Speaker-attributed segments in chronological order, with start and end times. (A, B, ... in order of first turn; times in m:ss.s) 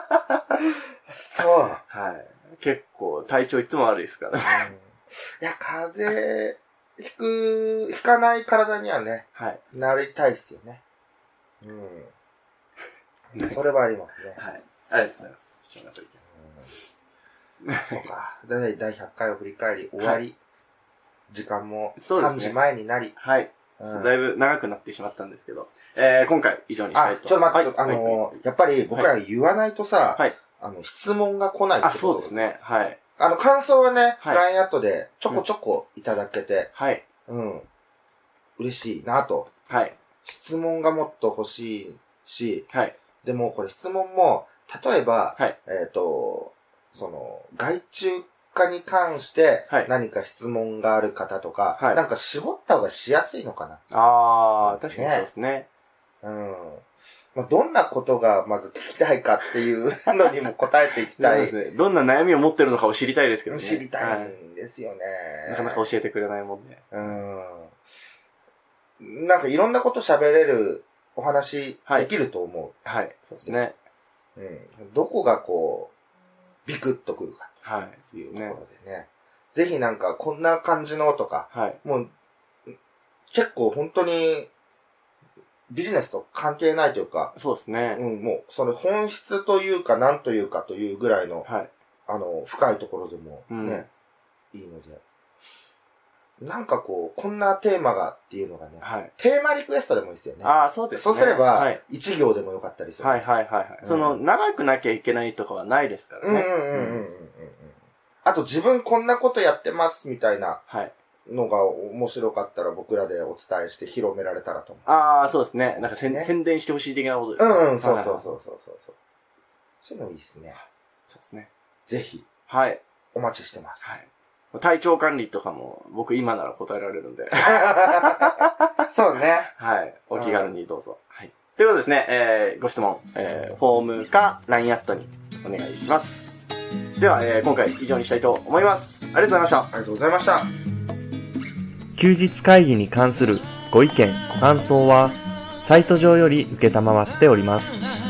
0:01.1-0:01.8 A
0:01.9-0:04.7 B
0:04.4-0:10.8 A
0:09.4-0:09.6 B
0:11.6-0:12.1 A
0:13.3-0:14.4 A
0:14.4-0:16.2 B
0:16.4-0:16.7 A
0:17.6-0:18.1 B
0:17.9-0:20.4 A
0:21.3-0:23.2 A
0:22.0-0:22.6 B
0:23.2-0:28.4 B
0:23.8-0:24.1 A
0:26.9-0:32.4 A
0:31.8-0:33.0 B
0:33.2-0:36.7 A
0:36.8-0:37.0 B
0:37.3-0:37.7 A
0:38.6-0:39.5 A
0:39.7-0:40.0 B
0:40.2-0:42.7 A
0:42.7-0:43.0 B
0:43.2-0:53.8 A
0:51.8-0:52.0 B
0:53.9-0:55.7 B
0:54.6-0:55.3 A
0:56.2-1:01.6 A
1:01.2-1:04.4 B
1:03.5-1:05.8 A
1:05.5-1:07.1 B
1:06.9-1:07.8 A
1:09.0-1:12.8 A
1:12.8-1:13.8 B
1:14.4-1:15.9 A
1:16.6-1:17.6 A
1:17.6-1:18.6 B
1:18.1-1:22.1 A
1:21.5-1:21.8 B
1:23.3-1:24.5 A
1:25.7-1:27.3 A
1:27.4-1:28.0 B
1:28.0-1:31.5 A
1:31.4-1:31.7 B
1:32.1-1:33.9 A
1:33.5-1:33.9 B
1:34.5-1:35.0 A
1:36.4-1:43.2 A
1:38.8-1:39.1 B
1:40.4-1:41.8 B
1:43.0-1:47.0 B
1:43.8-1:44.2 A
1:46.2-1:50.6 A
1:50.7-1:50.9 B
1:51.3-1:54.9 A
1:54.9-1:58.3 B
1:55.8-1:56.3 A
1:57.4-1:59.0 A
1:59.8-2:00.6 A
2:01.1-2:01.5 B
2:01.9-2:02.3 A
2:02.5-2:02.8 B
2:03.1-2:03.8 A
2:03.8-2:08.5 B
2:07.3-2:09.5 A
2:09.6-2:16.5 B
2:10.2-2:10.5 A
2:17.0-2:19.7 B
2:19.7-2:20.5 A
2:22.0-2:27.7 C